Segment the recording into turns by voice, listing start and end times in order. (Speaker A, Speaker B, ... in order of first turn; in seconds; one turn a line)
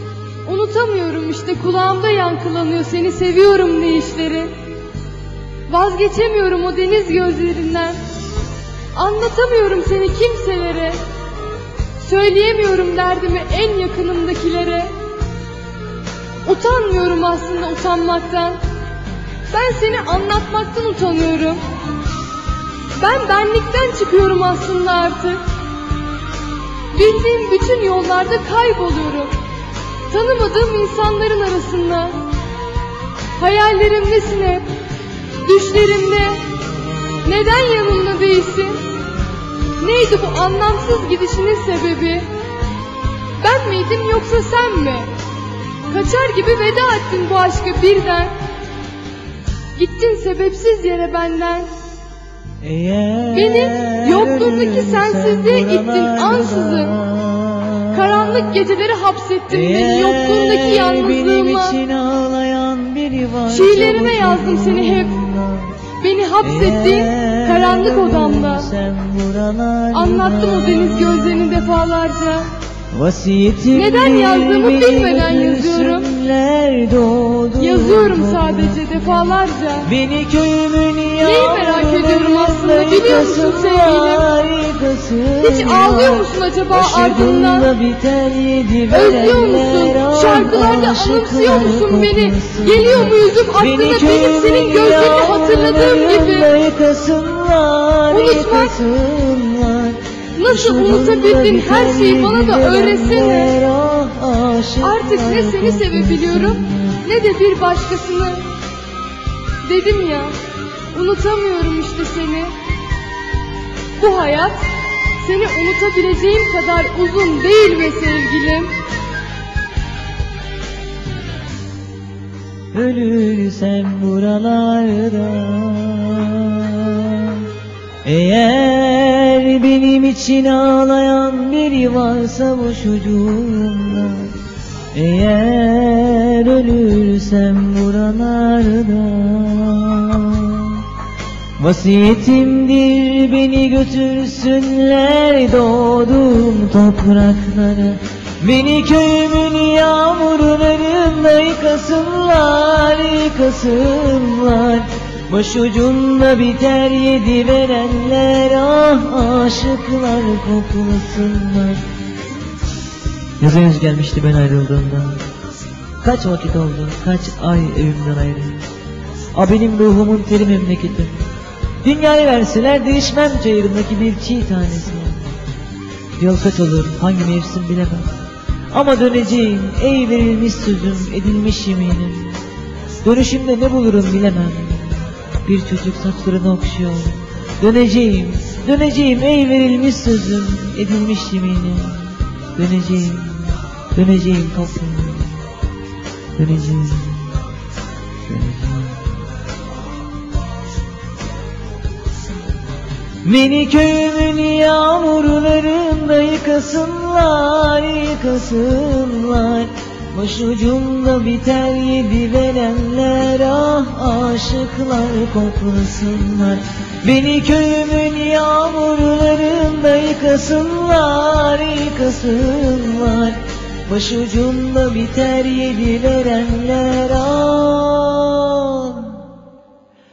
Speaker A: 0.5-4.5
Speaker A: 5.7-8.0
Speaker A: 8.9-11.0
Speaker A: 12.0-14.9
Speaker A: 16.4-18.6
Speaker A: 19.5-21.6
Speaker A: 23.0-25.4
Speaker A: 26.9-29.3
Speaker A: 30.1-32.3
Speaker A: 33.4-34.7
Speaker A: 35.4-36.5
Speaker A: 37.2-38.8
Speaker A: 39.8-42.3
Speaker A: 43.4-45.1
Speaker A: 45.9-48.4
Speaker A: 49.8-51.7
Speaker B: 52.6-58.6
Speaker A: 53.3-57.0
Speaker A: 57.9-61.8
Speaker B: 59.5-65.8
Speaker A: 63.5-65.2
Speaker A: 66.0-68.7
Speaker B: 66.4-71.8
Speaker A: 69.9-72.5
Speaker B: 72.9-107.0
Speaker A: 73.7-76.1
Speaker A: 77.6-79.9
Speaker A: 81.2-84.3
Speaker A: 85.4-87.7
Speaker A: 88.9-96.5
Speaker A: 98.1-98.7
Speaker A: 100.4-103.5
Speaker A: 104.8-108.5
Speaker A: 109.6-110.3
Speaker A: 110.9-112.5
Speaker A: 114.0-114.7
Speaker A: 115.2-118.7
Speaker B: 122.7-127.5
Speaker B: 128.1-134.4
Speaker B: 134.9-140.8
Speaker B: 141.6-161.8
Speaker B: 163.4-165.2
Speaker B: 166.0-168.6
Speaker B: 169.3-171.2
Speaker B: 171.8-175.3
Speaker B: 176.2-178.1
Speaker B: 178.7-182.4
Speaker B: 183.0-195.4
Speaker B: 196.4-197.4
Speaker B: 198.2-199.0
Speaker B: 203.2-229.2